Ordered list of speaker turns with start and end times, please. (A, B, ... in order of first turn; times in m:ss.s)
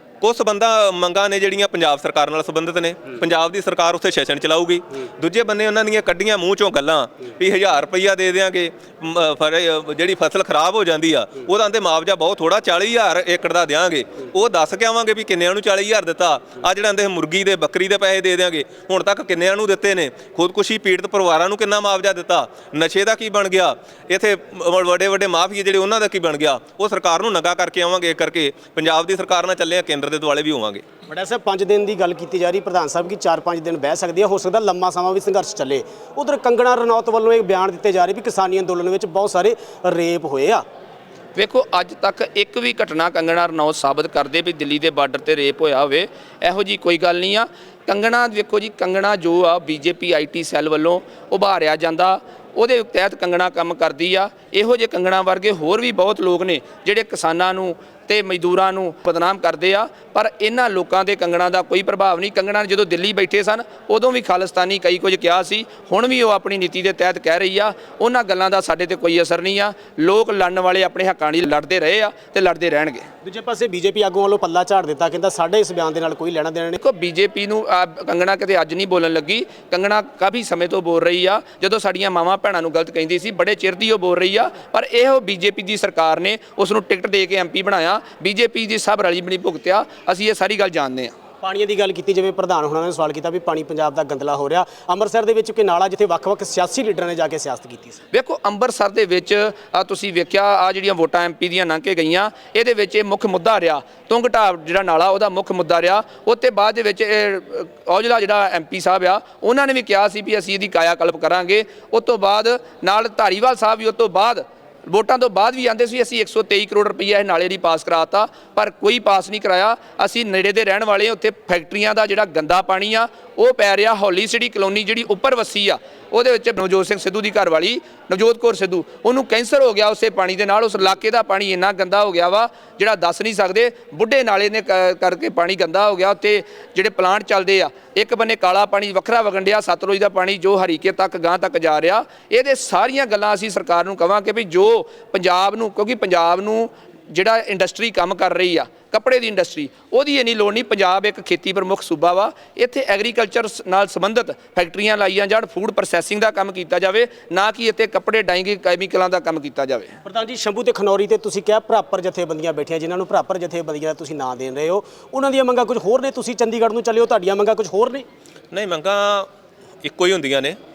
0:00.2-0:30.8 A
0:31.1-0:40.6 B
0:41.4-1:13.1 C
1:13.2-1:16.8 B
1:16.8-1:31.1 C
1:31.4-1:38.0 B
1:38.1-2:40.0 C
2:40.0-2:48.0 B
2:48.5-2:49.3 A
2:49.8-2:50.6 A